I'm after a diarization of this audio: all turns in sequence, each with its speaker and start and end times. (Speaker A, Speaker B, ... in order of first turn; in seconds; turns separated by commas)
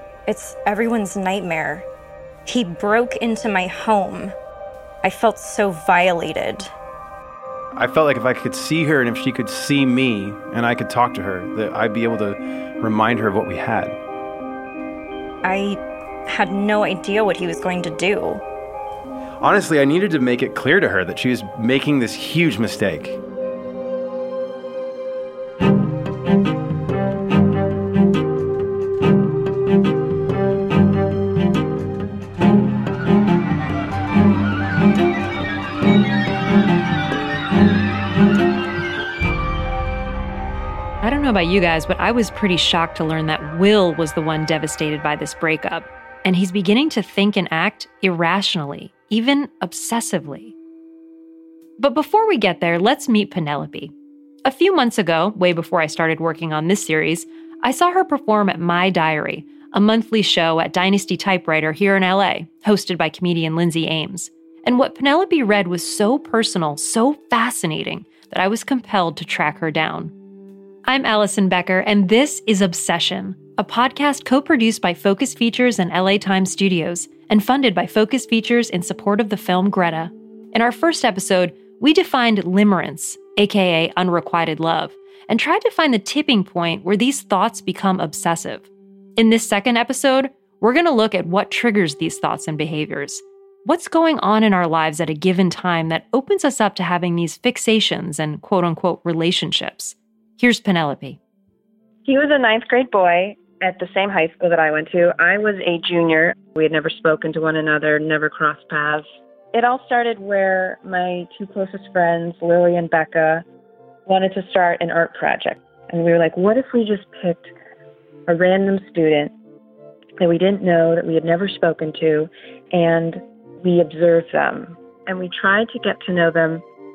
Speaker A: 0.3-1.9, Speaker A: 2.5-4.3, Speaker A: 5.0-6.7, Speaker B: 7.8-14.0, Speaker A: 15.4-18.4, Speaker B: 19.4-23.2, Speaker C: 41.0-50.5, Speaker C: 51.8-53.9, Speaker C: 54.4-70.1, Speaker C: 70.8-101.2, Speaker D: 102.0-113.4, Speaker D: 114.0-117.5, Speaker D: 118.3-119.3, Speaker D: 120.2-126.6